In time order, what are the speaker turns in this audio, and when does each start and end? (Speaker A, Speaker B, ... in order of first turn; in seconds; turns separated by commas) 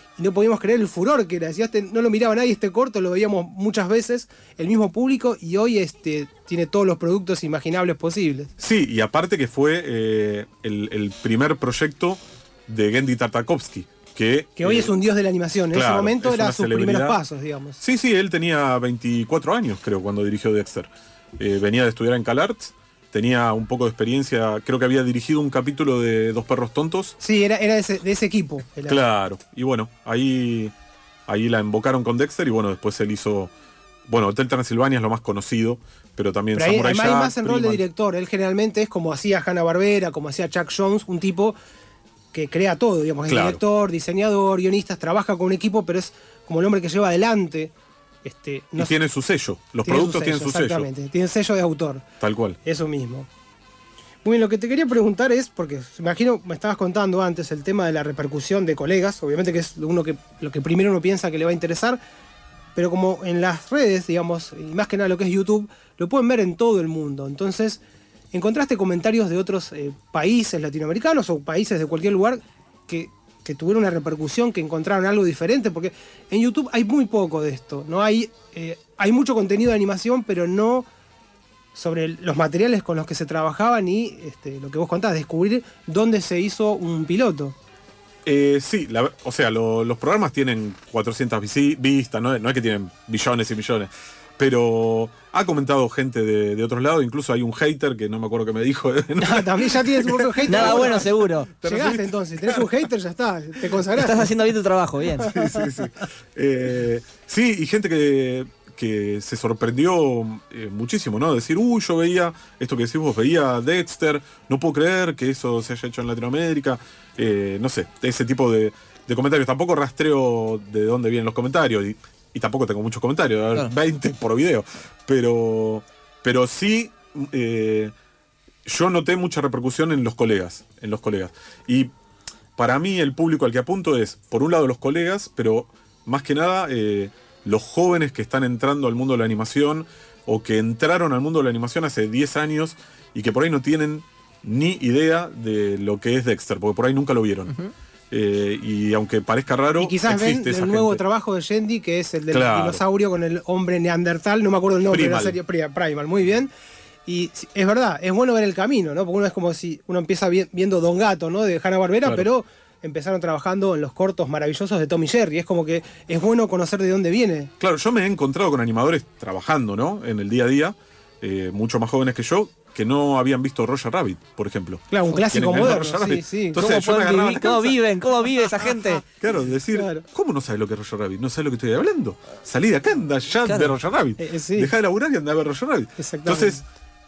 Speaker A: 0.2-8.5, Speaker B: 8.6-14.9, Speaker A: 14.6-17.8, Speaker B: 15.7-17.2, Speaker B: 17.8-27.1, Speaker A: 27.2-29.0, Speaker B: 28.9-30.7, Speaker B: 31.3-33.5, Speaker B: 34.1-37.8, Speaker A: 36.5-41.6, Speaker A: 42.3-47.7, Speaker B: 43.3-43.6, Speaker A: 48.2-49.0, Speaker B: 48.8-50.9, Speaker A: 49.8-52.0, Speaker B: 52.2-52.6, Speaker A: 52.6-53.3, Speaker A: 54.2-62.0, Speaker A: 62.7-80.8, Speaker A: 81.7-87.5, Speaker B: 88.2-102.8, Speaker A: 99.2-101.1, Speaker C: 100.5-101.5, Speaker A: 101.6-104.3, Speaker C: 103.9-105.3, Speaker B: 105.2-127.9, Speaker A: 105.2-105.7, Speaker B: 128.6-131.9, Speaker B: 132.6-147.5, Speaker B: 148.1-151.0, Speaker A: 149.8-156.5, Speaker B: 152.3-152.8, Speaker B: 154.9-155.4, Speaker A: 157.1-167.5, Speaker B: 167.6-177.8, Speaker A: 174.9-176.7, Speaker C: 175.1-175.7, Speaker C: 176.5-179.0, Speaker B: 179.2-186.6, Speaker A: 179.7-180.0, Speaker C: 183.4-183.7, Speaker A: 184.2-184.7, Speaker A: 186.0-186.6